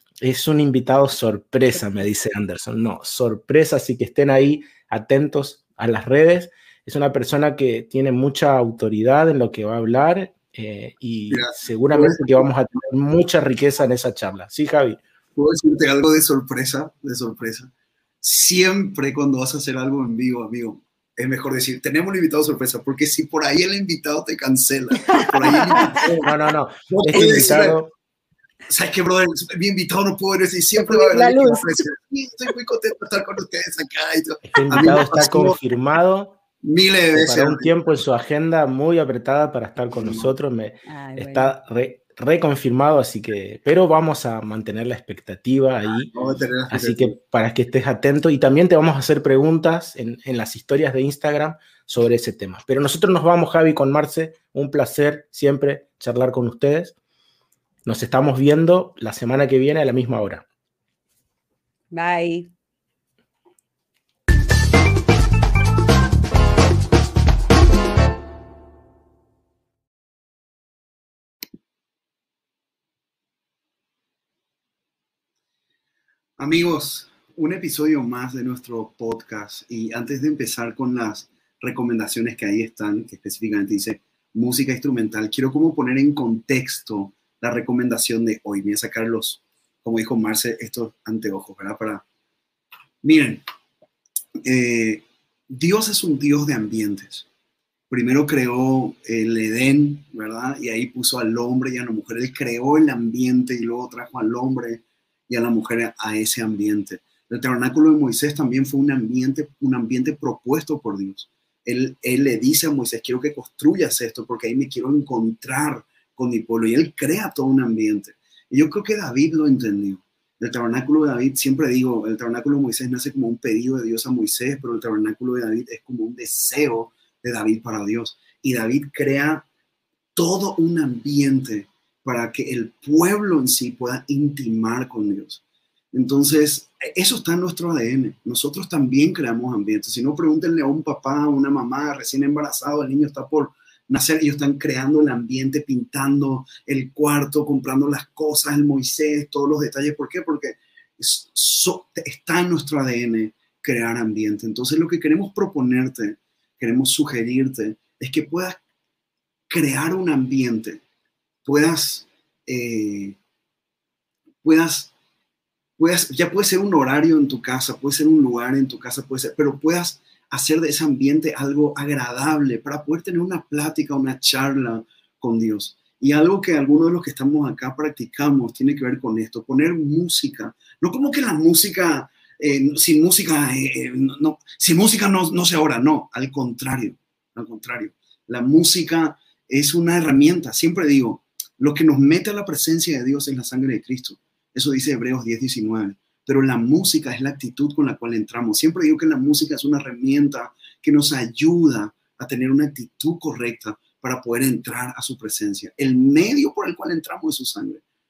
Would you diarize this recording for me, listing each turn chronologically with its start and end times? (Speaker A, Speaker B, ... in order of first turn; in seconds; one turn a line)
Speaker A: 0.2-15.0
Speaker B: 11.3-12.4
Speaker B: 15.4-17.7
Speaker B: 18.2-26.3
Speaker C: 25.1-25.9
Speaker A: 25.8-27.9
Speaker B: 26.9-27.8
Speaker B: 28.7-35.6
Speaker C: 30.8-31.9
Speaker A: 34.5-36.4
Speaker B: 36.6-37.7
Speaker A: 37.1-46.1
Speaker B: 39.9-40.3
Speaker C: 40.9-41.5
Speaker B: 46.1-47.2
Speaker A: 46.7-57.0
Speaker A: 57.9-60.4
Speaker C: 61.9-62.5
Speaker B: 76.4-92.0
Speaker B: 93.0-93.4
Speaker B: 94.5-97.3
Speaker B: 97.9-129.4
Speaker B: 130.2-135.4
Speaker B: 135.9-158.6
Speaker B: 159.5-160.8
Speaker B: 161.4-163.2
Speaker B: 164.4-164.9
Speaker B: 165.8-207.8